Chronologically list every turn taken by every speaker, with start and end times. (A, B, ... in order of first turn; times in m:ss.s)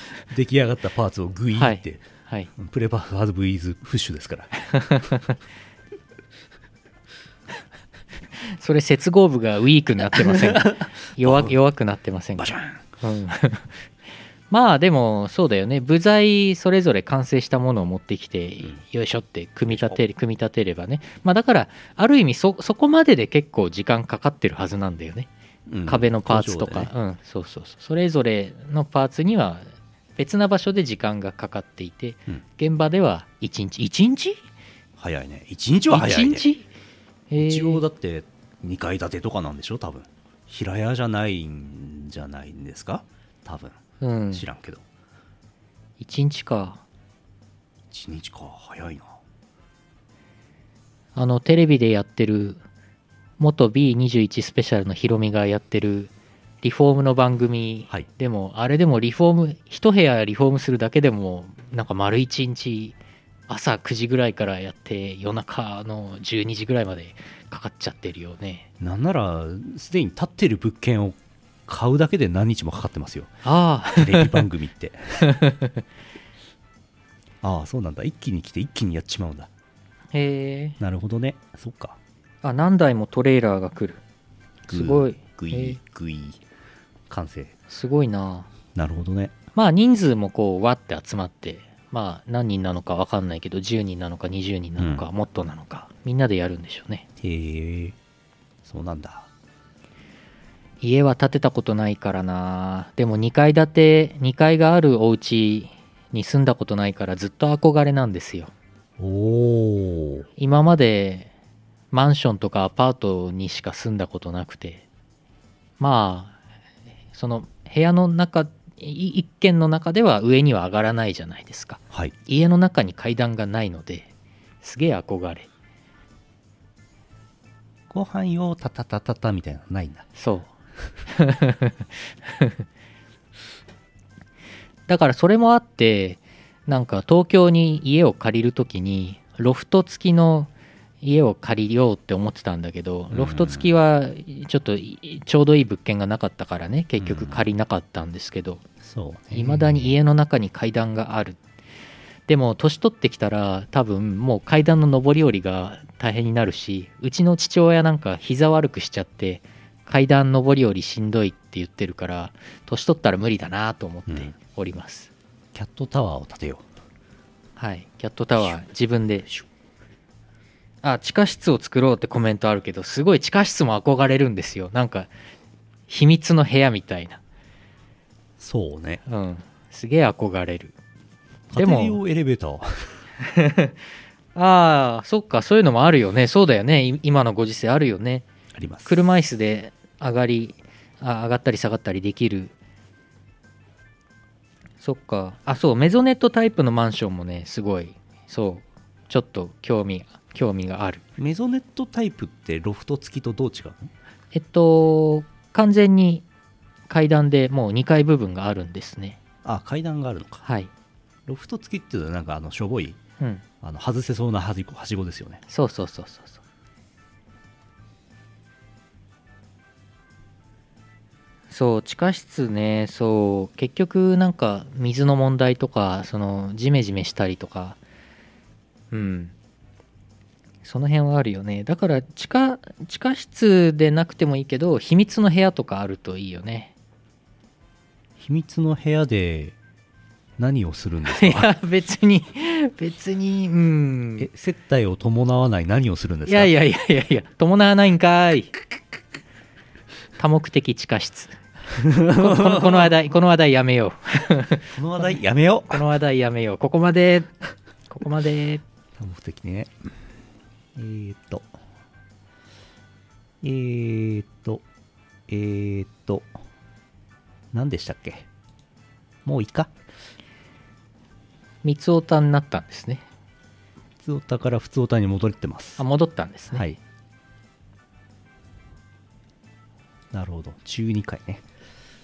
0:00.3-0:04.5 A
0:01.5-0:02.5 B
0:04.7-0:05.3 B
0:08.4-0:13.7 B
0:10.1-0:11.5 A
0:12.4-0:12.8 A
0:14.5-0:25.3 B
0:19.7-0:20.0 A
0:25.7-0:26.9 A
0:25.8-0:34.4 B
0:35.0-0:36.5 A
0:35.9-0:36.7 B
0:37.3-0:37.8 B
0:37.4-0:43.8 A
0:44.0-0:44.4 B
0:44.3-0:44.8 A
0:46.0-0:46.8 B
0:47.9-0:49.2 A
0:51.1-0:52.6 B
0:53.4-0:56.1 B
0:56.6-1:03.0 B
1:03.5-1:08.7 B
1:08.8-1:13.3 A
1:13.4-1:14.4 B
1:13.9-1:15.2 A
1:15.2-1:15.8 B
1:17.4-1:19.5 A
1:20.1-1:20.8 B
1:20.8-1:22.0 A
1:22.4-1:24.0 B
1:24.7-1:26.4 A
1:24.7-1:25.8 B
1:27.1-1:27.5 A
1:27.7-1:28.5 B
1:28.7-1:29.4 A
1:29.5-1:37.0 B
1:34.8-1:35.1 A
1:37.2-1:38.0 A
1:38.6-1:39.3 A
1:40.8-1:48.5 B
1:49.0-1:50.3 A
1:50.4-1:51.3 B
1:51.9-1:54.8 B
1:55.8-1:56.4 B
1:57.1-2:04.1 B
2:04.6-2:05.5 B
2:07.9-2:10.0 A
2:10.2-2:10.5 B
2:11.1-2:12.6 B
2:14.9-2:20.5 B
2:21.0-2:28.6 B
2:23.1-2:23.7 A
2:27.0-2:27.4 A
2:28.8-2:29.9 A
2:29.3-2:31.4 B
2:32.3-2:45.1 B
2:44.1-2:44.3 A
2:45.5-2:46.6 A
2:47.6-2:49.3 B
2:50.8-2:55.1 B
2:55.9-2:57.2 B
2:58.4-2:59.0 A
2:59.1-3:00.7 B
3:01.5-3:02.9 A
3:01.6-3:02.0 B
3:03.2-3:03.7 B
3:04.3-3:08.2 B
3:08.5-3:09.0 A
3:08.8-3:12.5 B
3:14.8-3:21.0 B
3:21.2-3:23.9 A
3:24.3-3:26.2 B
3:26.9-3:29.2 B
3:29.4-3:30.4 A
3:30.4-3:30.7 B
3:31.3-3:33.0 A
3:33.6-3:35.4 A
3:35.5-3:36.4 B
3:41.5-3:47.8 B
3:48.9-3:49.3 B
3:50.6-3:56.7 B
3:58.2-3:59.6 A
4:00.4-4:01.5 A
4:01.1-4:04.3 B
4:04.2-4:06.5 A
4:06.3-4:08.5 B
4:10.2-4:15.1 B
4:11.8-4:12.9 A
4:14.7-4:15.8 A
4:15.7-4:17.3 B
4:17.9-4:18.6 B
4:19.0-4:19.7 A
4:20.7-4:21.5 A
4:23.4-4:24.6 A
4:25.3-4:26.3 A
4:27.5-4:28.3 A
4:29.2-4:29.7 A
4:31.6-4:33.0 B
4:34.0-4:35.8 A
4:35.8-4:36.7 B
4:36.5-4:36.8 A
4:40.1-4:41.4 A